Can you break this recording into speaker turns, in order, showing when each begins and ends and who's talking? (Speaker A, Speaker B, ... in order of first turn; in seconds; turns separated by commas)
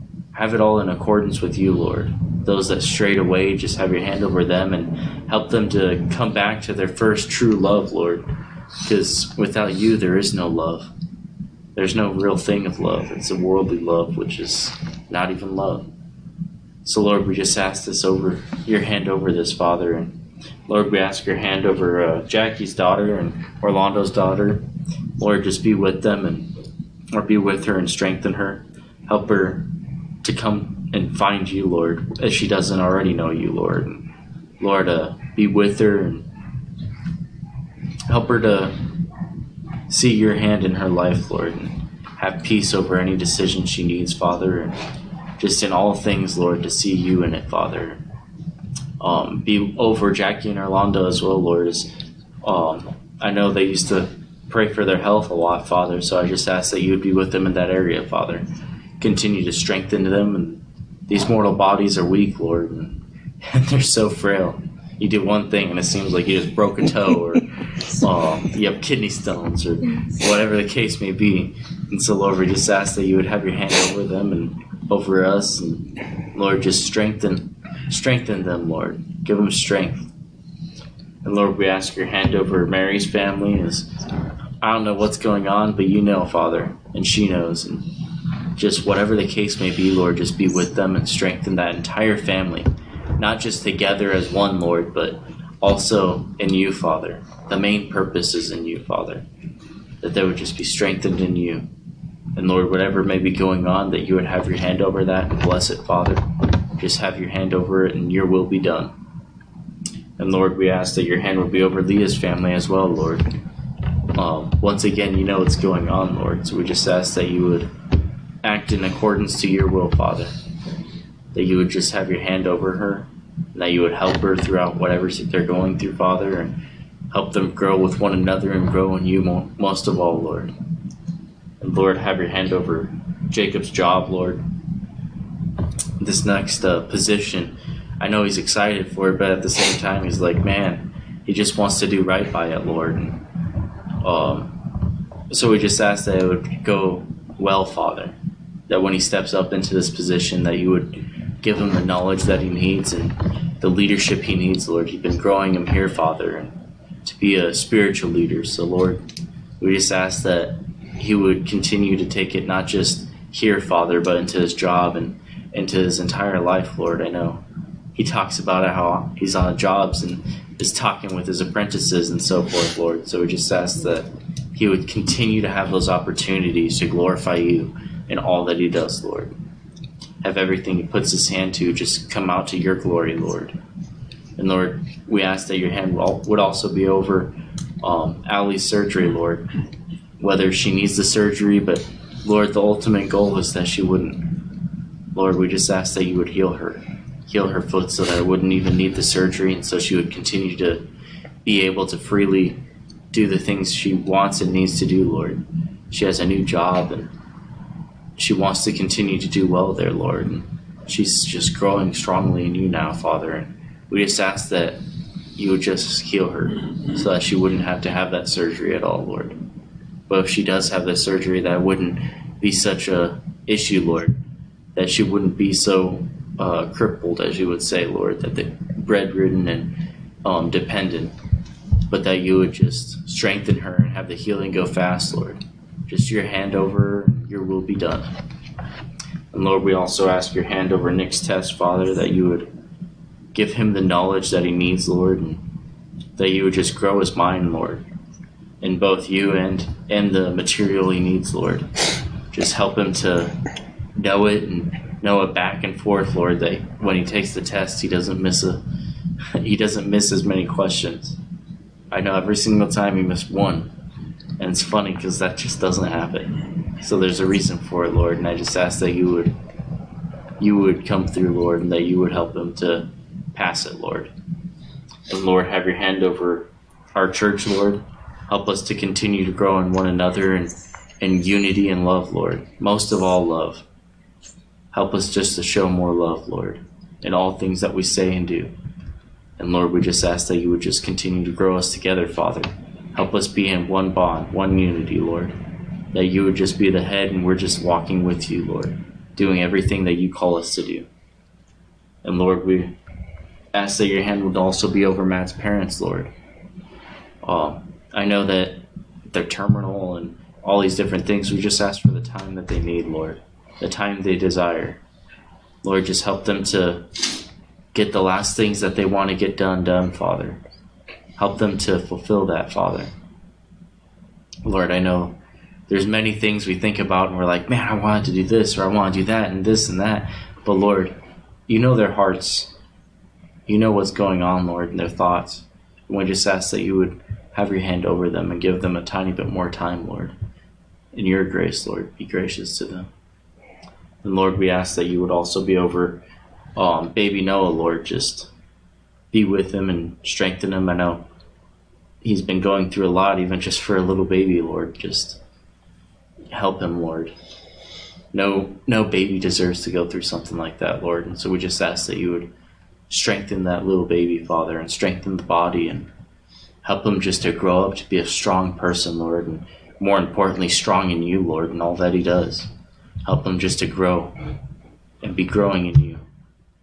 Speaker A: 0.3-8.2, Speaker A: 8.8-10.9, Speaker A: 11.7-15.9, Speaker A: 16.8-20.1, Speaker A: 20.7-24.6, Speaker A: 25.2-26.5, Speaker A: 27.1-29.6, Speaker A: 30.2-34.1, Speaker A: 34.6-36.2, Speaker A: 38.1-38.7, Speaker A: 39.9-44.8, Speaker A: 45.4-48.0, Speaker A: 49.0-51.9, Speaker A: 52.4-58.4, Speaker A: 59.0-80.1, Speaker A: 81.2-83.9, Speaker A: 84.6-87.9, Speaker A: 88.5-99.2, Speaker A: 100.0-101.7, Speaker A: 102.3-106.2, Speaker A: 106.8-108.9, Speaker A: 110.2-113.3, Speaker A: 114.2-117.7, Speaker A: 118.4-120.3, Speaker A: 121.3-126.6, Speaker A: 127.1-130.5, Speaker A: 131.6-134.4, Speaker A: 136.0-143.2, Speaker A: 144.0-144.5, Speaker A: 145.3-148.1, Speaker A: 148.7-156.5, Speaker A: 157.0-159.0, Speaker A: 159.6-167.4, Speaker A: 167.9-179.3, Speaker A: 180.2-183.6, Speaker A: 184.4-189.5, Speaker A: 190.2-194.3, Speaker A: 195.1-200.8, Speaker A: 201.4-202.6, Speaker A: 203.1-207.1, Speaker A: 208.2-214.8, Speaker A: 215.3-219.4, Speaker A: 220.1-224.2, Speaker A: 224.7-231.1, Speaker A: 231.9-238.1, Speaker A: 239.3-242.5, Speaker A: 243.3-245.4, Speaker A: 246.2-247.8, Speaker A: 248.6-253.3, Speaker A: 253.9-258.6, Speaker A: 259.3-261.2, Speaker A: 261.9-263.7, Speaker A: 264.4-269.3, Speaker A: 270.4-274.1, Speaker A: 275.1-283.6, Speaker A: 284.7-288.5, Speaker A: 289.4-295.3, Speaker A: 295.9-300.9, Speaker A: 302.0-302.7, Speaker A: 303.5-306.1, Speaker A: 307.2-314.8, Speaker A: 315.6-316.9, Speaker A: 317.7-320.4, Speaker A: 321.2-322.9, Speaker A: 324.4-325.1, Speaker A: 325.7-330.9, Speaker A: 331.5-332.5, Speaker A: 333.5-340.1, Speaker A: 340.9-342.9, Speaker A: 344.0-346.0, Speaker A: 346.6-348.3, Speaker A: 349.1-351.0, Speaker A: 352.0-355.2, Speaker A: 356.3-357.1, Speaker A: 358.1-362.3, Speaker A: 362.9-365.9, Speaker A: 366.6-372.5, Speaker A: 373.0-374.1, Speaker A: 375.0-376.0